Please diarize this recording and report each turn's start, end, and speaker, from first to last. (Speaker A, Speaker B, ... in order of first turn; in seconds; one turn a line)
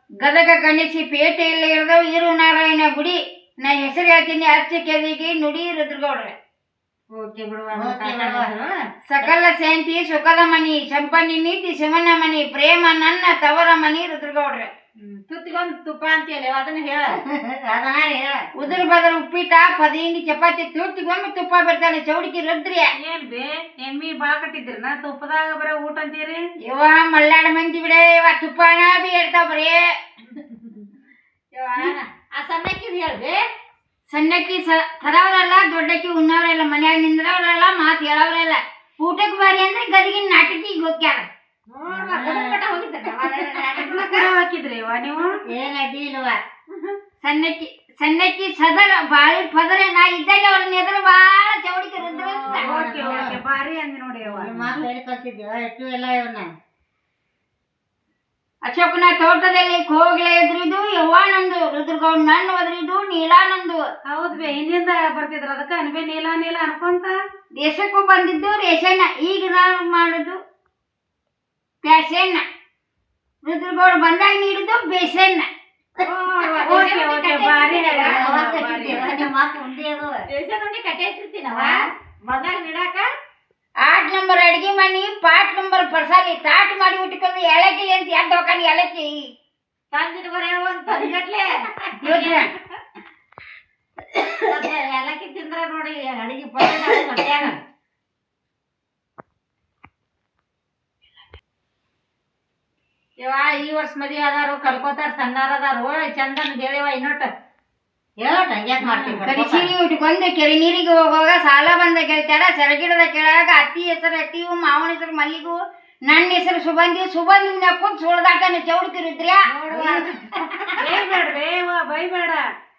Speaker A: 0.2-6.3
Speaker B: 7.1-8.7
Speaker C: 7.7-8.5
Speaker A: 9.1-14.7
Speaker B: 15.0-17.2
Speaker C: 17.1-18.5
Speaker A: 18.6-22.9
Speaker D: 23.0-26.4
Speaker A: 26.6-29.9
Speaker B: 30.4-30.8
Speaker B: 31.5-33.4
Speaker A: 34.1-41.2
Speaker B: 41.7-44.3
Speaker C: 41.9-42.6
Speaker D: 43.8-45.2
Speaker C: 45.4-46.4
Speaker A: 47.2-52.7
Speaker C: 52.4-53.4
Speaker D: 52.5-54.8
Speaker B: 52.6-53.3
Speaker C: 54.2-56.5
Speaker A: 58.6-63.8
Speaker D: 64.1-67.1
Speaker A: 67.6-70.4
Speaker A: 71.8-72.4
Speaker A: 73.4-75.5
Speaker C: 76.0-76.9
Speaker B: 76.0-78.2
Speaker D: 76.6-79.1
Speaker A: 77.4-78.2
Speaker C: 77.7-80.2
Speaker B: 80.3-83.1
Speaker A: 83.8-89.3
Speaker B: 89.9-92.4
Speaker A: 92.0-92.5
Speaker B: 94.4-97.6
Speaker B: 103.2-107.3
Speaker C: 108.2-109.7
Speaker B: 108.8-109.2
Speaker A: 109.3-119.4
Speaker B: 119.5-120.1
Speaker C: 119.7-120.8
Speaker D: 120.8-122.4